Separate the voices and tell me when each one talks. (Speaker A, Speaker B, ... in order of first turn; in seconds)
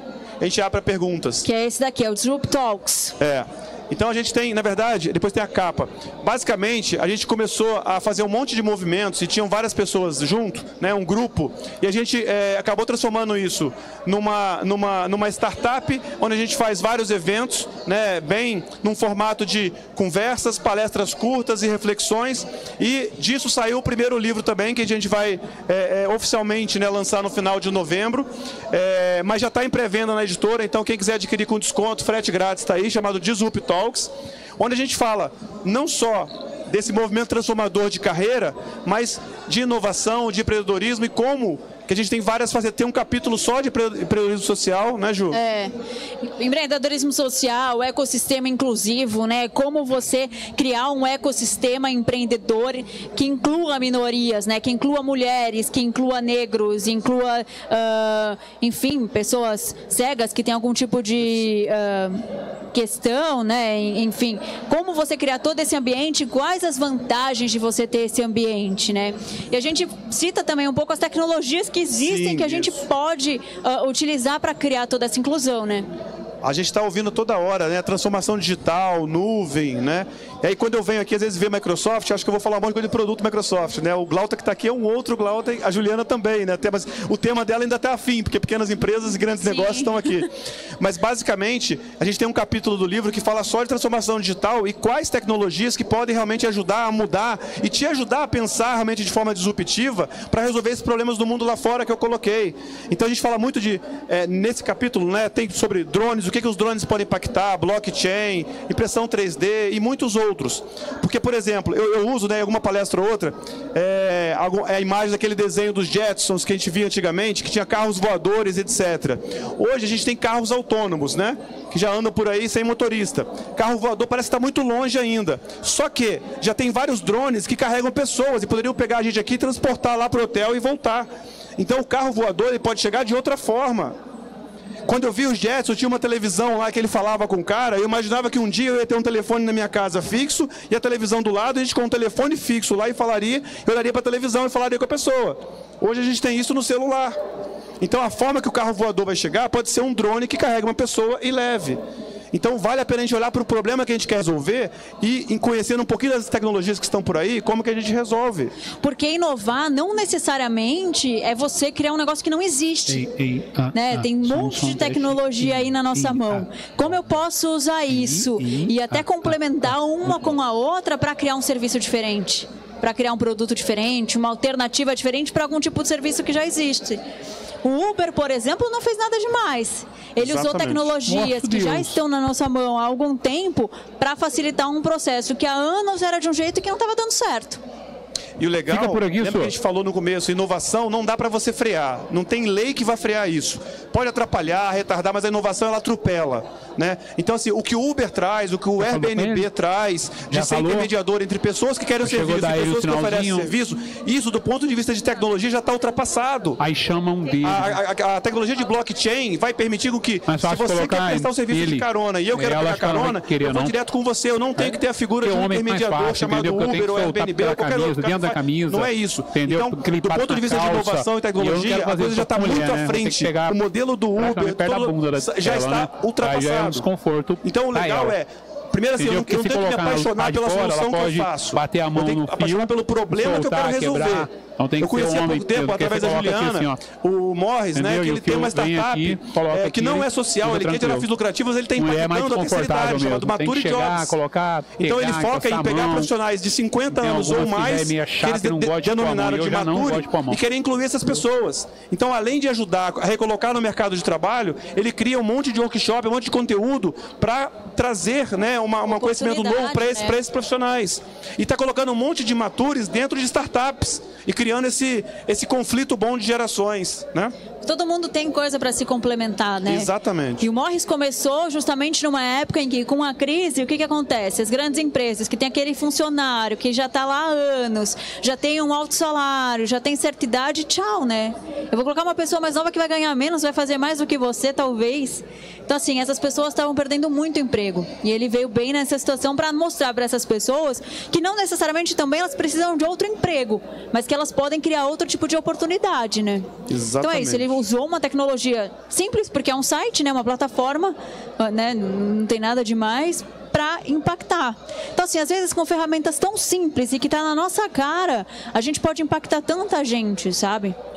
Speaker A: 0.4-1.5, 3.2-45.4, 72.0-72.8, 76.4-134.0, 134.9-147.2, 147.8-151.8, 152.3-158.5, 180.2-180.9, 188.4-206.6, 207.4-226.9, 227.4-244.2, 244.8-267.3, 269.7-270.5, 296.7-297.6
Speaker B: 1.4-3.2, 45.3-45.7, 46.2-75.9, 89.4-90.1, 158.8-163.1, 163.7-177.0, 177.6-187.6, 258.9-260.2, 267.6-310.8
Speaker C: 162.9-166.4, 167.9-169.0, 181.1-182.0, 188.7-189.5, 198.8-199.5, 200.3-200.9, 202.0-203.5, 206.6-207.8, 210.3-213.8, 214.6-223.6, 224.2-228.2, 229.0-236.8, 237.7-241.1, 241.8-246.1, 246.9-250.4